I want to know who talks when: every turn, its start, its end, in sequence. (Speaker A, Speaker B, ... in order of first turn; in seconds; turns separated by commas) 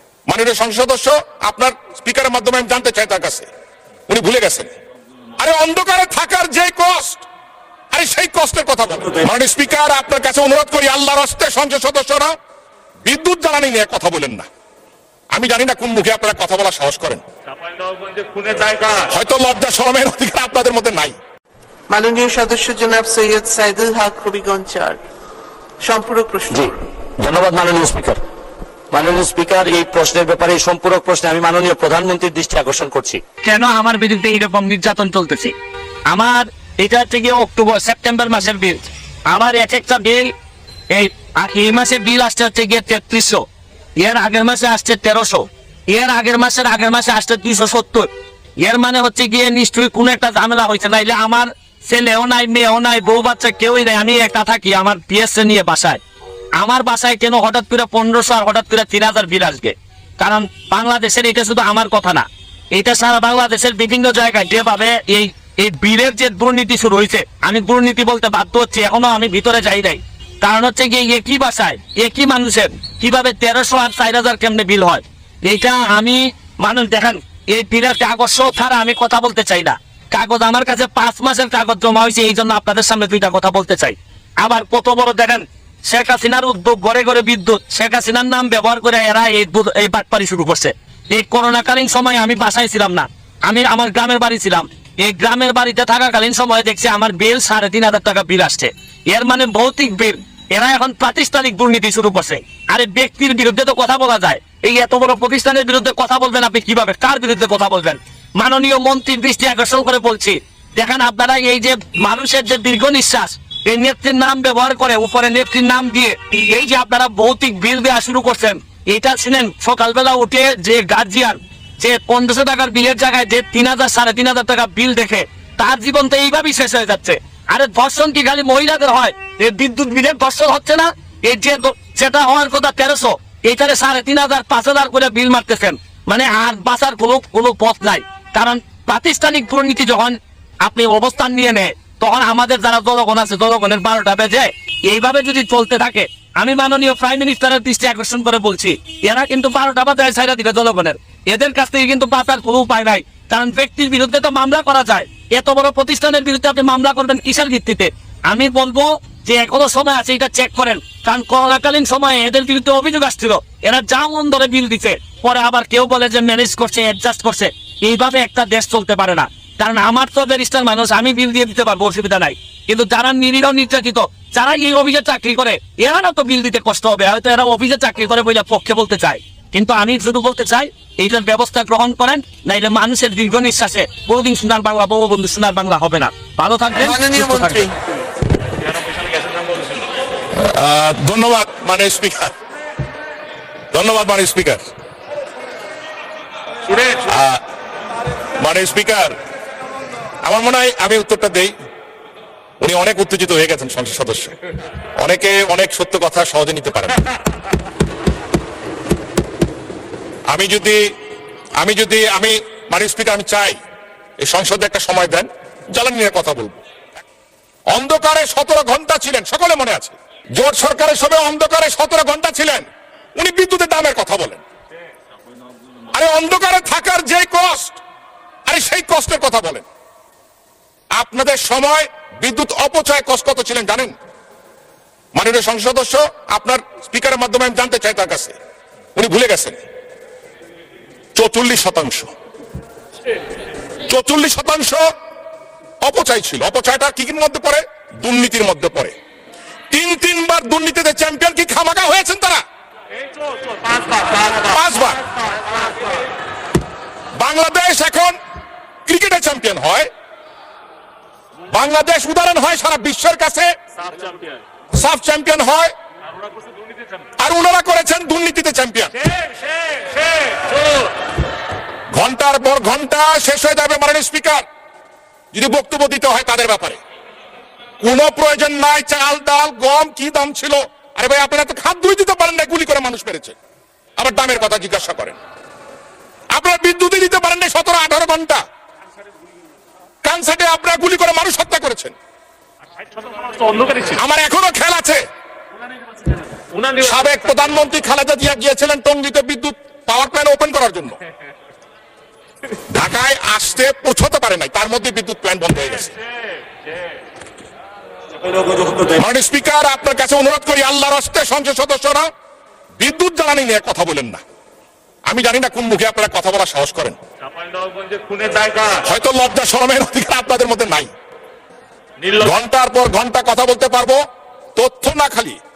Speaker A: 0.3-3.5, Speaker A: 4.1-4.7, Speaker A: 5.4-7.2, Speaker A: 7.9-12.3, Speaker A: 13.0-14.5, Speaker A: 15.3-17.2, Speaker B: 17.6-19.0, Speaker A: 19.0-21.2, Speaker C: 21.9-25.0, Speaker C: 25.8-26.5, Speaker D: 26.5-28.2, Speaker D: 28.9-33.2, Speaker E: 33.4-35.5, Speaker E: 36.1-40.3, Speaker E: 40.9-43.4, Speaker E: 44.0-48.1, Speaker E: 48.6-56.0, Speaker E: 56.6-187.7, Speaker C: 187.0-187.4, Speaker A: 190.4-192.3, Speaker A: 193.7-194.7, Speaker A: 197.1-197.4, Speaker A: 198.4-199.1, Speaker A: 200.2-201.5, Speaker A: 202.6-204.3, Speaker A: 205.0-207.0, Speaker A: 210.3-210.8, Speaker A: 211.6-213.6, Speaker A: 214.2-216.6, Speaker A: 217.7-224.4, Speaker A: 225.9-227.8, Speaker A: 228.5-229.7, Speaker A: 231.0-233.9, Speaker A: 235.1-238.4, Speaker A: 238.9-239.6, Speaker A: 241.2-242.1, Speaker A: 243.9-244.8, Speaker A: 245.8-248.9, Speaker A: 249.7-252.4, Speaker A: 254.3-255.0, Speaker A: 257.2-258.2, Speaker A: 258.9-259.9, Speaker A: 261.5-263.5, Speaker B: 263.8-264.4, Speaker A: 264.7-265.7, Speaker A: 267.2-269.0, Speaker A: 271.9-274.4, Speaker A: 275.3-276.8, Speaker A: 277.8-283.4, Speaker A: 284.0-285.2, Speaker A: 286.3-288.4, Speaker A: 290.0-291.9, Speaker B: 293.0-293.9, Speaker A: 293.9-295.0, Speaker B: 296.4-296.8, Speaker A: 296.8-301.0, Speaker A: 302.7-305.9, Speaker A: 308.8-312.1, Speaker A: 312.8-314.2, Speaker A: 315.1-317.0, Speaker B: 317.4-318.8, Speaker A: 318.8-320.9, Speaker A: 322.2-324.0, Speaker A: 324.6-325.4